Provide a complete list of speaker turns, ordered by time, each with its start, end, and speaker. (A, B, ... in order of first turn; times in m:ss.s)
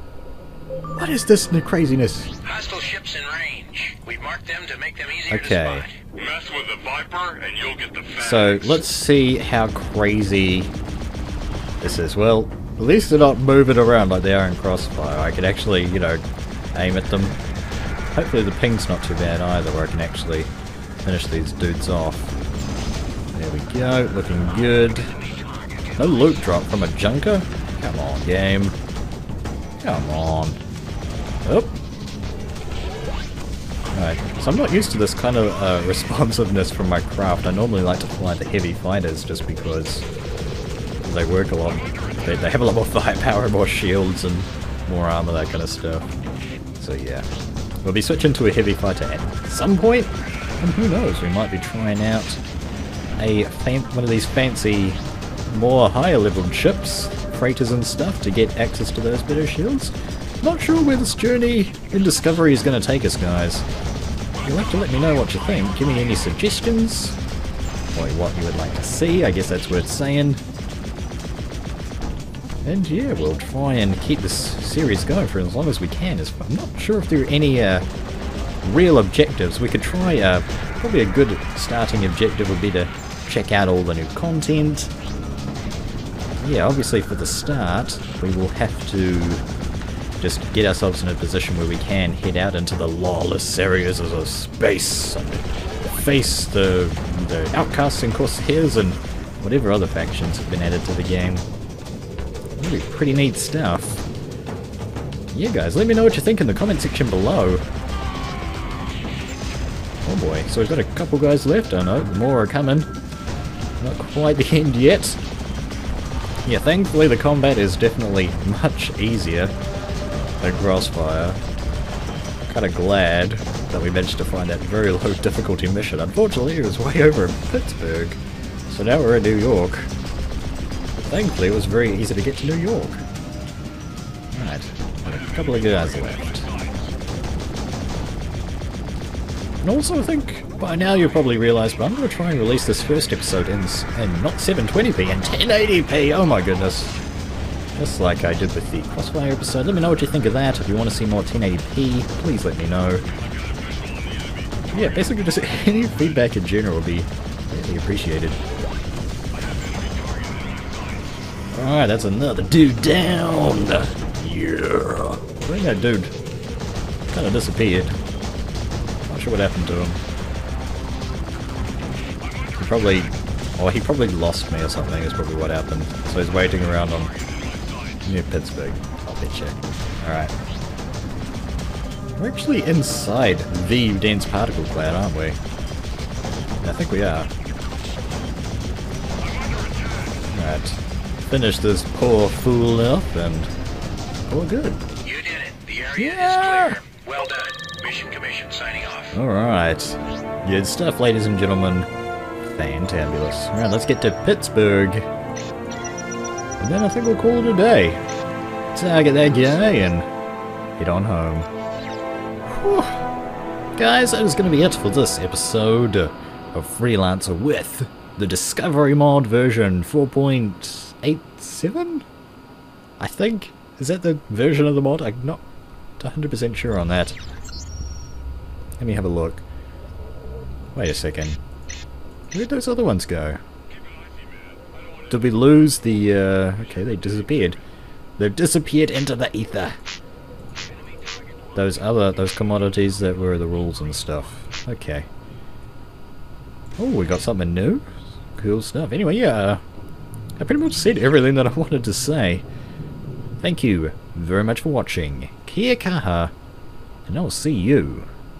0:00.9-0:02.3 A
0:02.4-0:08.8 B
0:05.3-0:05.8 A
0:08.2-0:10.7 A
0:11.8-0:17.4 A
0:18.1-0:20.5 A
0:21.0-0:22.3 A
0:23.3-0:25.1 A
0:25.1-0:26.0 B
0:26.0-0:28.8 A
0:29.8-0:30.6 A
0:31.4-0:31.8 A
0:33.9-0:40.1 A
0:41.0-0:46.1 A
0:46.8-0:47.3 A
0:47.8-0:52.4 A
0:53.1-1:03.6 A
1:04.4-1:07.2 A
1:04.8-1:05.4 B
1:07.9-1:10.4 A
1:12.6-1:17.8 A
1:18.6-1:24.9 A
1:26.4-1:29.4 A
1:30.2-1:41.4 A
1:42.6-1:44.0 A
1:45.3-1:47.6 A
1:50.0-1:52.9 A
1:53.8-1:55.2 A
1:56.4-1:59.5 A
2:00.4-2:01.4 A
2:02.5-2:09.9 A
2:10.9-2:13.0 A
2:14.3-2:16.5 A
2:15.2-2:16.8 B
2:19.6-2:26.9 A
2:27.8-2:33.0 A
2:33.1-2:34.8 B
2:34.7-2:38.4 A
2:39.3-2:41.0 B
2:41.5-2:46.1 A
2:47.1-2:48.0 A
2:49.0-2:50.0 A
2:52.6-2:57.1 A
2:57.1-2:58.0 B
2:58.0-3:00.3 A
3:02.2-3:05.4 A
3:06.6-3:07.3 A
3:09.2-3:10.2 B
3:10.3-3:13.5 A
3:14.3-3:14.8 A
3:15.0-3:19.2 B
3:16.0-3:16.8 A
3:19.1-3:21.9 A
3:22.4-3:25.1 A
3:26.6-3:28.0 A
3:28.7-3:30.1 A
3:30.8-3:31.5 A
3:32.5-3:33.0 A
3:33.8-3:42.0 A
3:43.0-3:45.4 A
3:46.0-3:47.2 A
3:48.8-3:49.4 A
3:50.7-3:51.4 A
3:52.3-3:53.4 A
3:55.1-3:57.6 A
3:58.2-3:59.8 A
4:01.5-4:05.1 A
4:06.8-4:09.6 A
4:10.4-4:12.4 A
4:13.4-4:16.3 A
4:17.0-4:18.1 A